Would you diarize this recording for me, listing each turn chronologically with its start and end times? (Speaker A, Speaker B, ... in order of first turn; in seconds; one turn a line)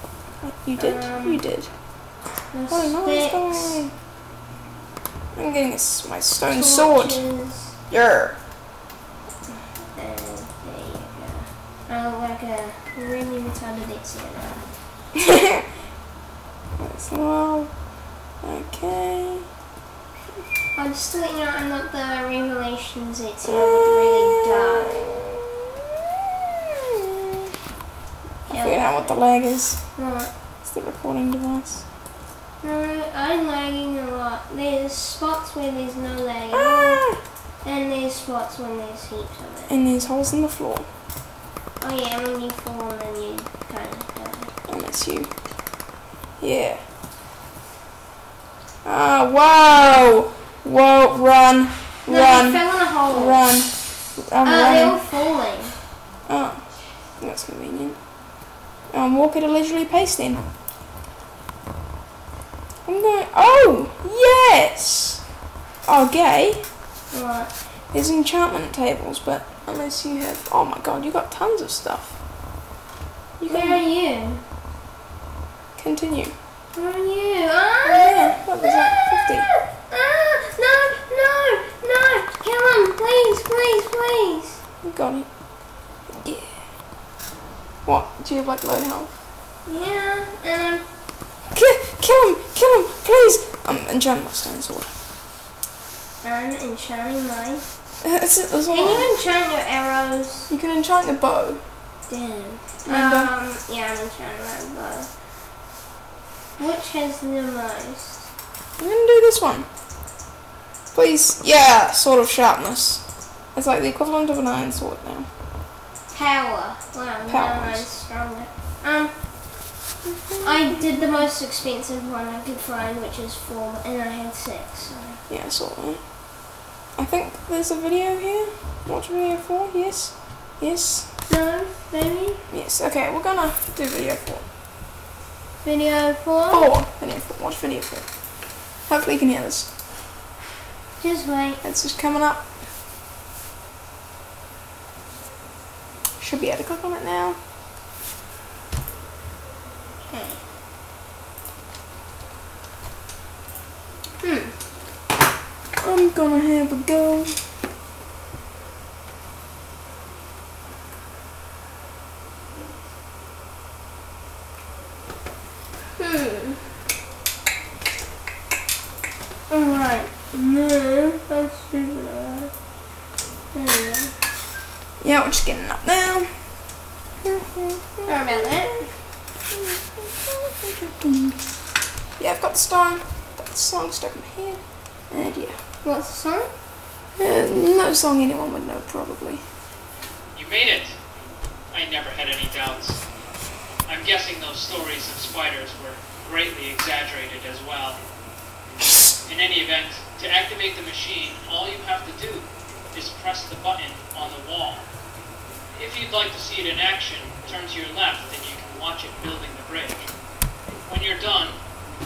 Speaker A: 0.4-1.7
Speaker B: 0.8-1.4
Speaker B: 2.5-3.8
Speaker A: 2.7-3.9
Speaker A: 5.3-7.3
Speaker B: 6.5-7.8
Speaker A: 7.9-8.4
Speaker B: 9.8-14.8
Speaker A: 16.8-19.5
Speaker B: 20.8-25.3
Speaker A: 23.5-25.1
Speaker B: 28.5-30.3
Speaker A: 28.5-31.9
Speaker B: 32.6-39.8
Speaker A: 36.5-37.2
Speaker A: 39.7-40.9
Speaker B: 41.8-44.5
Speaker A: 44.7-45.3
Speaker A: 46.4-46.8
Speaker A: 48.8-55.0
Speaker B: 52.1-53.5
Speaker B: 54.4-55.8
Speaker A: 56.3-60.5
Speaker A: 62.9-65.3
Speaker A: 65.8-66.7
Speaker B: 67.1-67.5
Speaker A: 67.9-72.2
Speaker A: 73.4-73.8
Speaker B: 73.5-74.5
Speaker A: 75.8-76.3
Speaker B: 76.7-84.6
Speaker A: 77.8-79.5
Speaker A: 84.8-85.3
Speaker A: 86.1-86.7
Speaker A: 87.8-89.2
Speaker B: 89.7-90.9
Speaker A: 91.5-94.9
Speaker B: 96.2-97.7
Speaker A: 98.0-99.2
Speaker B: 98.7-100.5
Speaker A: 100.5-101.6
Speaker B: 102.1-105.1
Speaker A: 102.8-103.3
Speaker B: 106.6-108.3
Speaker A: 108.8-109.7
Speaker A: 110.9-115.3
Speaker B: 116.1-119.8
Speaker A: 117.3-117.9
Speaker A: 120.3-121.0
Speaker B: 120.4-125.2
Speaker A: 125.3-131.1
Speaker B: 131.3-132.4
Speaker A: 132.5-134.4
Speaker B: 135.6-136.7
Speaker A: 136.5-138.3
Speaker A: 138.8-139.7
Speaker B: 141.0-141.6
Speaker A: 141.6-142.5
Speaker A: 146.2-147.4
Speaker B: 150.1-150.4
Speaker B: 154.2-154.6
Speaker A: 155.8-157.4
Speaker B: 166.0-166.6
Speaker B: 169.5-172.5
Speaker B: 173.5-174.1
Speaker A: 175.0-176.4
Speaker A: 177.2-178.9
Speaker B: 178.1-178.9
Speaker A: 179.5-181.4
Speaker A: 182.2-185.6
Speaker B: 185.8-186.5
Speaker A: 187.2-189.4
Speaker C: 190.3-191.0
Speaker C: 191.7-193.1
Speaker C: 193.9-198.0
Speaker C: 199.2-204.9
Speaker C: 205.7-210.1
Speaker C: 210.8-211.6